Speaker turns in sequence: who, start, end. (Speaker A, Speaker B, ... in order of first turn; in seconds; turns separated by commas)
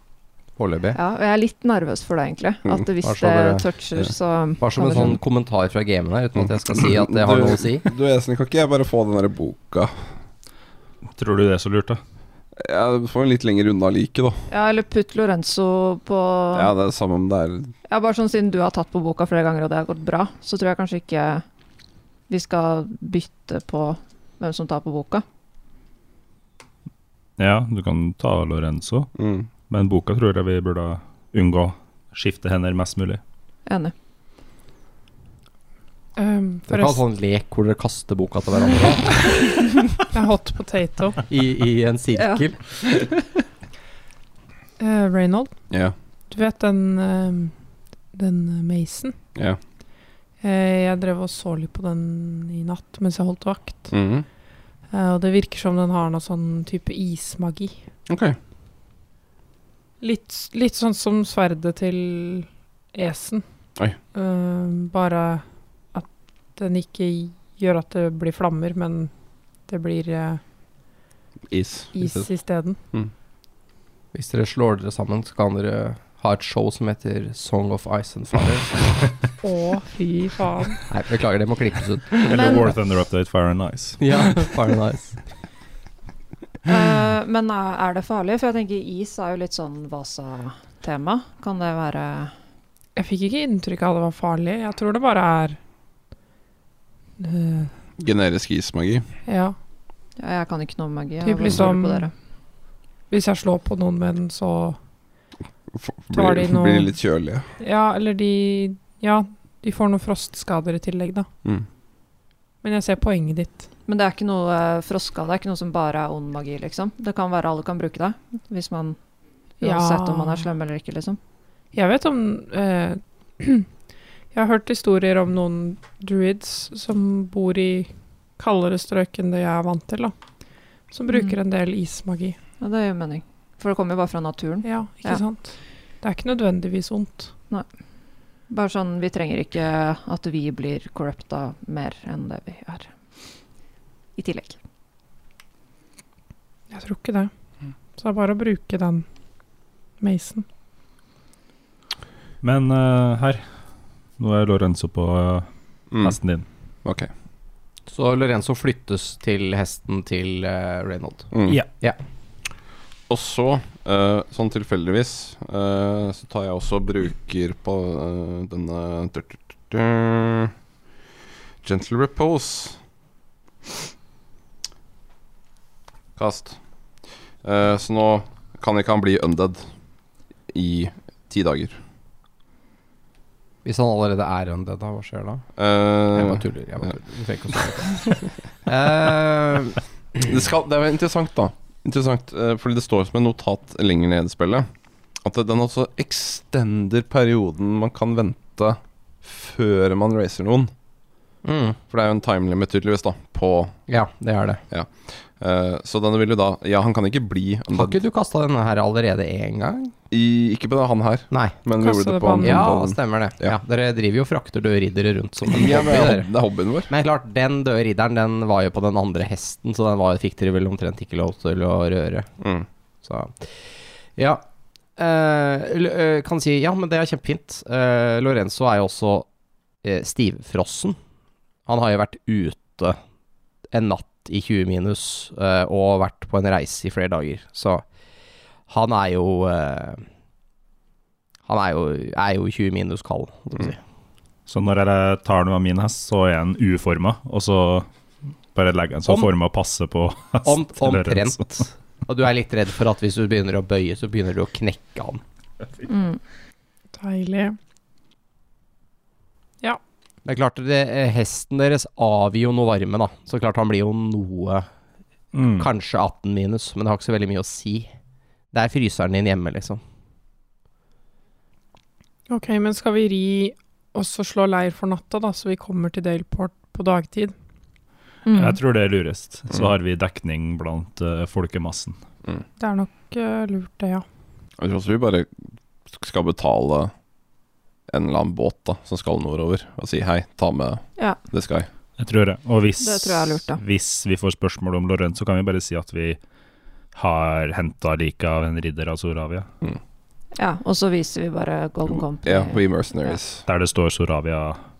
Speaker A: 0.6-1.0, Speaker B: 0.9-5.2, Speaker A: 3.0-3.7, Speaker A: 4.6-7.9, Speaker C: 6.4-9.9, Speaker D: 11.2-12.0, Speaker C: 12.6-14.5, Speaker B: 14.5-16.7, Speaker C: 16.5-17.7, Speaker B: 17.9-21.4, Speaker B: 22.3-25.2, Speaker D: 27.4-29.1, Speaker C: 29.2-29.5, Speaker D: 29.7-33.2, Speaker B: 33.6-33.9, Speaker E: 36.1-37.0, Speaker A: 36.7-39.6, Speaker E: 40.1-41.2, Speaker A: 41.3-42.6, Speaker E: 44.8-45.5, Speaker E: 46.3-47.5, Speaker E: 48.1-49.1, Speaker E: 50.4-53.9, Speaker C: 53.9-54.2, Speaker E: 54.9-57.8, Speaker C: 58.1-58.4, Speaker E: 60.0-63.4, Speaker E: 64.1-69.1, Speaker E: 69.7-70.4, Speaker C: 71.5-72.3, Speaker E: 71.9-72.8, Speaker A: 74.1-78.9, Speaker E: 79.4-80.8, Speaker A: 80.9-82.7, Speaker D: 82.2-84.5, Speaker B: 82.3-82.7, Speaker A: 84.0-85.2, Speaker B: 86.7-92.3, Speaker E: 93.0-95.6, Speaker E: 97.2-97.7, Speaker C: 98.0-99.1, Speaker E: 99.2-99.5, Speaker B: 100.2-102.1, Speaker E: 101.2-102.1, Speaker E: 103.1-104.8, Speaker C: 105.7-107.5, Speaker E: 106.1-106.9, Speaker E: 107.6-111.3, Speaker E: 112.6-113.7, Speaker B: 113.9-119.0, Speaker B: 119.6-121.2, Speaker E: 119.6-120.4, Speaker E: 121.7-123.7, Speaker E: 124.3-130.1, Speaker E: 130.9-132.4, Speaker B: 131.1-131.4, Speaker B: 132.6-135.2, Speaker E: 134.6-137.3, Speaker B: 138.5-142.9, Speaker B: 144.2-144.6, Speaker E: 146.7-147.3, Speaker E: 147.9-149.1, Speaker E: 150.0-150.4, Speaker D: 152.4-153.4, Speaker D: 154.2-155.5, Speaker C: 155.9-156.2, Speaker D: 156.0-156.4, Speaker C: 156.8-157.1, Speaker A: 157.9-162.0, Speaker C: 161.3-161.6, Speaker C: 163.1-170.5, Speaker C: 171.6-172.8, Speaker C: 176.2-176.6, Speaker C: 177.4-179.7, Speaker C: 180.5-181.8, Speaker A: 183.6-185.4, Speaker C: 185.6-186.4, Speaker A: 186.1-190.3, Speaker C: 190.2-194.7, Speaker C: 195.2-200.7, Speaker A: 201.4-201.8, Speaker C: 201.9-203.7, Speaker A: 203.9-204.6, Speaker C: 204.7-207.9, Speaker A: 207.7-209.9, Speaker C: 210.1-213.6, Speaker A: 211.3-211.6, Speaker E: 211.8-212.7, Speaker A: 212.4-216.3, Speaker C: 215.5-216.9, Speaker A: 216.9-222.3, Speaker C: 222.4-222.7, Speaker A: 223.0-224.4, Speaker A: 225.0-229.2, Speaker A: 229.8-231.0, Speaker A: 231.7-233.0, Speaker A: 233.7-237.8, Speaker A: 238.7-240.0, Speaker A: 241.5-243.8, Speaker D: 244.5-247.9, Speaker D: 248.5-251.5, Speaker A: 250.4-255.2, Speaker B: 255.9-256.2, Speaker E: 256.9-257.6, Speaker A: 260.2-264.7, Speaker D: 265.3-265.6, Speaker A: 265.6-267.9, Speaker A: 268.5-269.8, Speaker E: 272.3-277.3, Speaker B: 278.2-278.6, Speaker D: 278.3-282.0, Speaker E: 282.6-284.0, Speaker C: 284.6-285.3, Speaker C: 285.9-286.9, Speaker C: 287.9-291.7, Speaker D: 292.0-296.2, Speaker B: 292.8-293.6, Speaker D: 296.9-299.5, Speaker B: 300.3-303.2, Speaker C: 302.2-303.4, Speaker D: 303.5-304.6